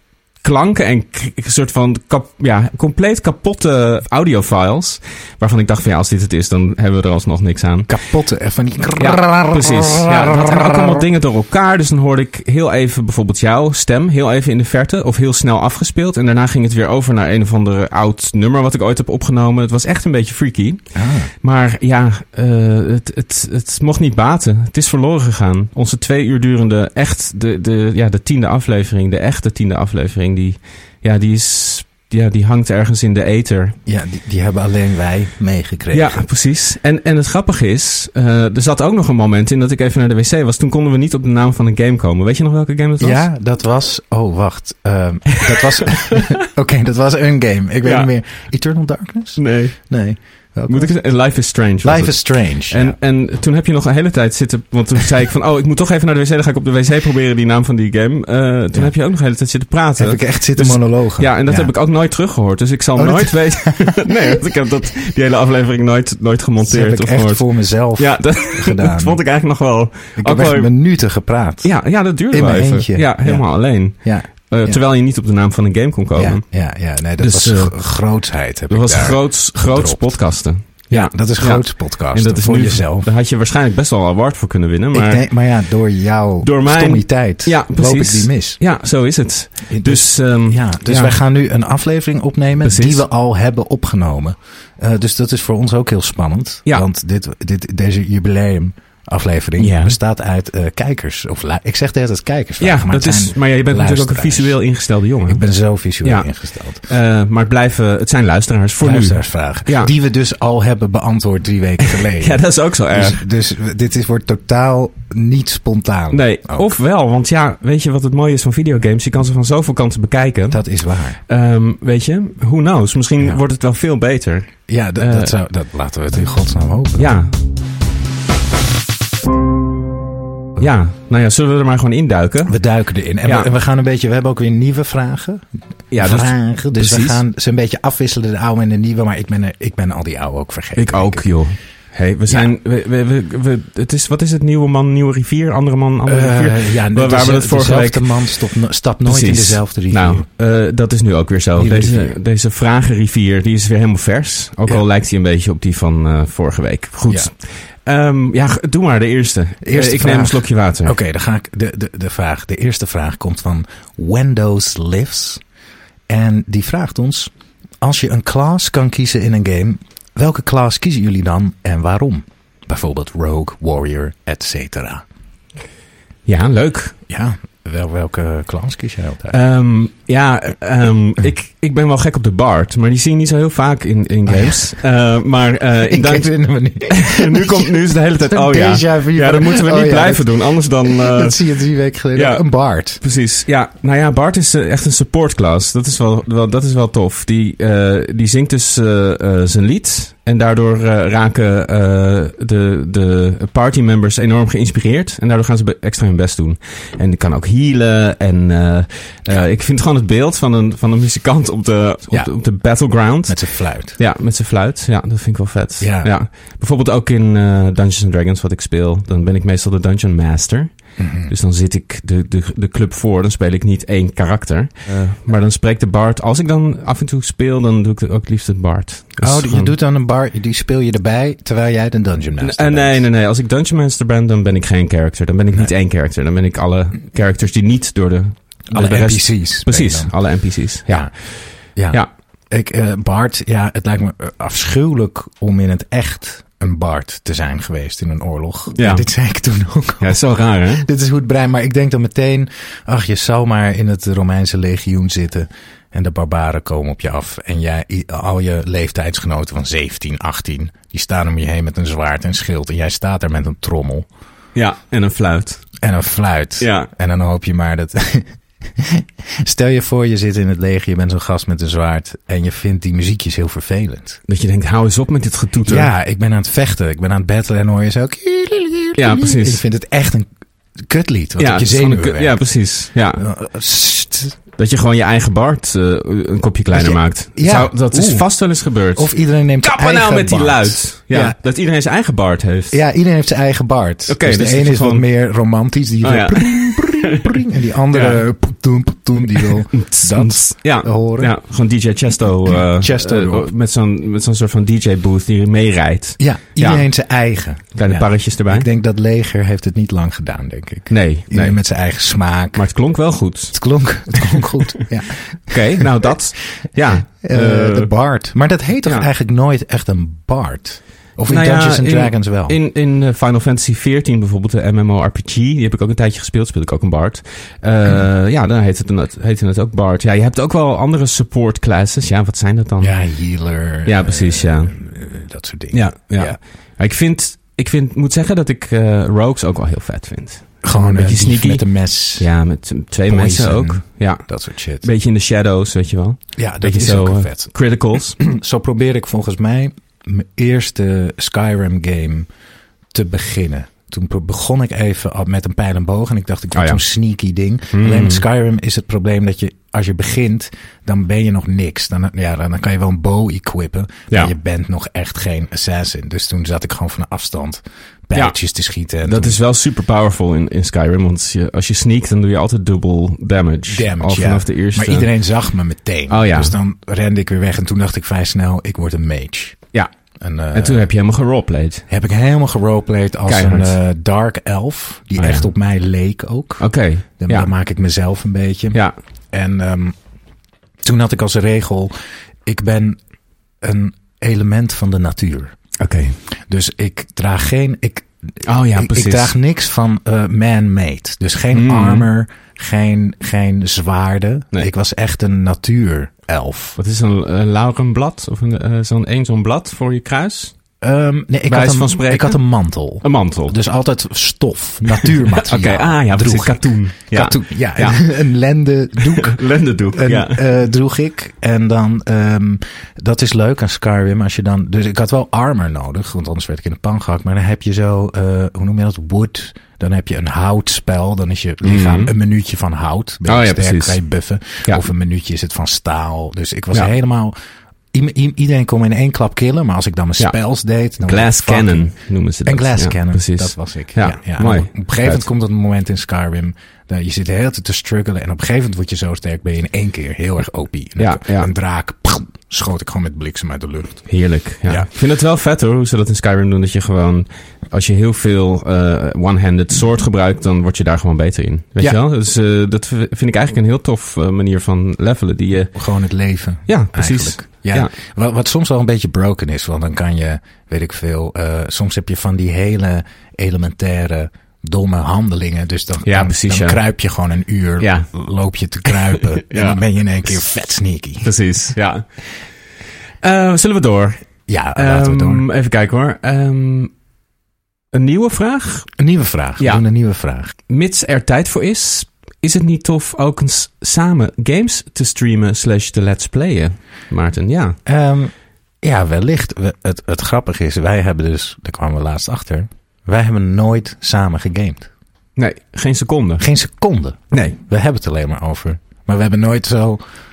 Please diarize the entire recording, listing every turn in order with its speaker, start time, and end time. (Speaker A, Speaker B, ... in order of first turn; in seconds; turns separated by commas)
Speaker A: 0.4-7.9, Speaker B: 7.9-11.0, Speaker A: 9.0-20.8, Speaker B: 20.9-21.3, Speaker A: 21.4-33.8, Speaker B: 33.9-36.2, Speaker A: 35.9-43.2, Speaker B: 43.0-50.9, Speaker A: 45.5-46.2, Speaker A: 47.9-48.1, Speaker A: 49.4-49.8, Speaker A: 50.7-52.2, Speaker B: 51.8-53.0, Speaker A: 52.7-67.4, Speaker B: 60.0-61.7, Speaker B: 63.0-64.4, Speaker B: 66.6-69.2, Speaker A: 68.0-70.7, Speaker B: 70.2-71.7, Speaker A: 71.6-76.4, Speaker B: 72.3-73.5, Speaker B: 74.0-74.8, Speaker B: 76.2-80.0, Speaker A: 77.2-77.8, Speaker A: 78.7-85.3, Speaker B: 80.9-83.1, Speaker B: 84.9-88.6, Speaker A: 86.4-91.2, Speaker B: 89.7-104.6, Speaker A: 92.6-93.0, Speaker A: 99.6-100.0, Speaker A: 102.6-105.4, Speaker B: 105.3-106.8, Speaker A: 106.0-106.3, Speaker A: 106.8-109.9, Speaker B: 108.8-116.7, Speaker A: 111.8-113.2, Speaker A: 116.1-120.6, Speaker B: 120.5-121.2, Speaker A: 121.3-125.3, Speaker B: 124.7-127.1, Speaker A: 127.0-127.3, Speaker A: 130.6-132.6, Speaker B: 132.4-141.3, Speaker A: 133.2-133.5, Speaker A: 135.9-137.2, Speaker A: 140.8-148.2, Speaker B: 146.1-150.3, Speaker A: 149.1-157.3, Speaker B: 151.6-152.2, Speaker A: 157.9-161.0, Speaker B: 159.6-165.4, Speaker B: 166.1-167.3, Speaker B: 167.8-175.0, Speaker A: 176.3-177.0, Speaker B: 177.1-179.4, Speaker A: 179.3-186.3, Speaker B: 184.3-184.7, Speaker B: 185.9-193.0, Speaker A: 186.9-191.4, Speaker A: 192.2-192.4, Speaker A: 193.0-213.4, Speaker B: 213.3-214.0, Speaker A: 214.0-220.7, Speaker B: 215.8-216.1, Speaker B: 221.0-221.3, Speaker A: 221.3-229.7, Speaker B: 229.2-233.1, Speaker A: 232.4-241.1, Speaker B: 238.7-240.1, Speaker B: 241.8-264.1, Speaker A: 248.8-249.1, Speaker A: 250.0-250.8, Speaker A: 264.6-265.6, Speaker B: 265.8-274.2, Speaker A: 266.6-266.9, Speaker A: 274.3-275.9, Speaker B: 275.7-280.3, Speaker A: 279.0-279.6, Speaker B: 280.8-282.4, Speaker A: 281.4-283.2, Speaker B: 283.1-284.4, Speaker A: 284.6-292.8, Speaker B: 286.7-288.3, Speaker B: 288.9-291.4, Speaker B: 292.7-301.3, Speaker A: 294.1-295.1, Speaker A: 296.0-298.2, Speaker A: 299.4-306.9, Speaker B: 302.5-303.5, Speaker B: 306.2-312.6, Speaker A: 307.8-308.7, Speaker A: 310.9-311.6, Speaker A: 312.5-313.6, Speaker B: 313.5-316.1, Speaker A: 315.5-317.9, Speaker B: 317.2-322.6, Speaker A: 321.3-332.9, Speaker B: 332.8-336.4, Speaker A: 333.9-334.7, Speaker A: 335.7-341.6, Speaker B: 340.6-342.3, Speaker A: 342.2-344.2, Speaker B: 343.1-344.9, Speaker A: 344.8-348.2, Speaker B: 346.4-347.5, Speaker B: 348.2-352.3, Speaker B: 352.9-369.4, Speaker A: 356.6-356.8, Speaker A: 357.7-358.2, Speaker A: 369.0-375.1, Speaker B: 373.7-379.6, Speaker A: 376.1-376.6, Speaker B: 380.2-380.9, Speaker A: 380.5-381.8, Speaker B: 381.9-386.6, Speaker A: 383.3-383.8, Speaker A: 385.2-385.5, Speaker A: 386.6-387.5, Speaker B: 387.2-388.8, Speaker B: 389.3-390.0, Speaker B: 390.8-391.9, Speaker B: 392.5-393.0, Speaker B: 393.6-395.5, Speaker A: 395.8-396.2, Speaker B: 396.5-398.1, Speaker A: 398.4-399.3, Speaker B: 398.7-406.8, Speaker A: 401.5-402.1, Speaker A: 406.8-410.5, Speaker B: 410.8-419.4, Speaker A: 411.5-412.4, Speaker A: 413.0-413.6, Speaker A: 415.3-418.0, Speaker A: 419.1-420.5, Speaker B: 419.9-437.4, Speaker A: 431.6-432.1, Speaker A: 433.3-434.0, Speaker B: 437.9-441.9, Speaker A: 441.0-445.2, Speaker B: 442.5-454.1, Speaker A: 451.0-451.5, Speaker A: 454.1-465.7, Speaker B: 465.8-481.3, Speaker A: 466.7-467.9, Speaker A: 476.1-476.8, Speaker A: 477.8-478.1, Speaker A: 479.3-479.8, Speaker A: 481.2-482.0, Speaker A: 483.2-484.2, Speaker B: 484.5-485.4, Speaker A: 484.8-486.9, Speaker A: 487.9-488.9, Speaker B: 489.0-490.5, Speaker A: 490.7-497.8, Speaker B: 497.9-504.9, Speaker A: 505.4-506.5, Speaker B: 506.4-510.0, Speaker A: 507.3-507.6